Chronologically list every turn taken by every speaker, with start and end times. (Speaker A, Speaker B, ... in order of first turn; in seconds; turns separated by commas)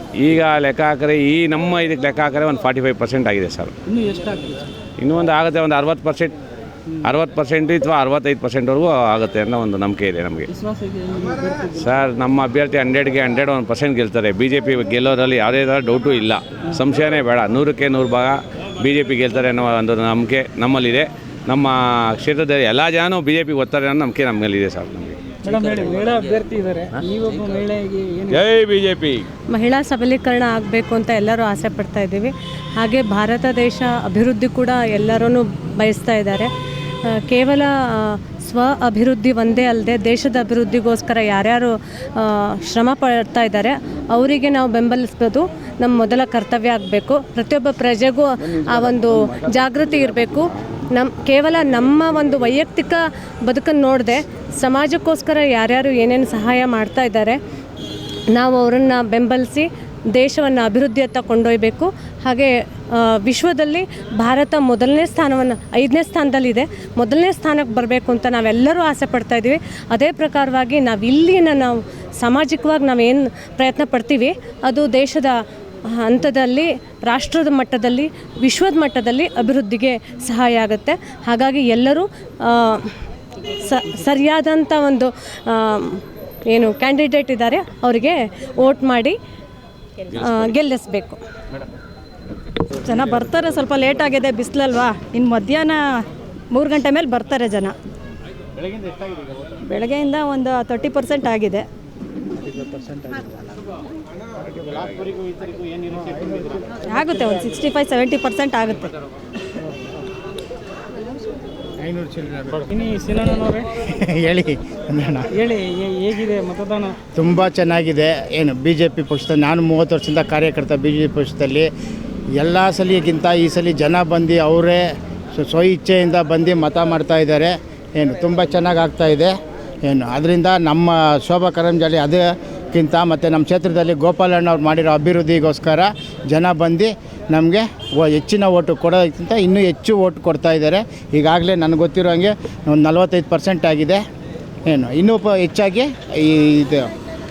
Speaker A: 0.2-3.7, Speaker B: 3.9-4.7, Speaker A: 5.0-6.3, Speaker A: 7.0-10.5, Speaker B: 10.5-11.8, Speaker A: 11.8-26.0, Speaker B: 25.4-28.4, Speaker A: 28.3-29.3, Speaker C: 29.5-36.5, Speaker C: 37.1-57.4, Speaker A: 48.5-50.5, Speaker C: 58.3-75.4, Speaker C: 75.9-82.9, Speaker C: 83.6-89.2, Speaker C: 90.1-91.2, Speaker D: 92.8-95.8, Speaker D: 96.5-97.7, Speaker E: 98.6-99.2, Speaker D: 99.6-101.7, Speaker E: 102.4-103.5, Speaker E: 104.4-106.8, Speaker D: 106.8-108.9, Speaker E: 111.8-112.7, Speaker B: 112.8-113.7, Speaker E: 113.8-115.3, Speaker B: 115.4-117.0, Speaker E: 117.1-121.7, Speaker E: 122.3-144.0, Speaker E: 144.7-146.9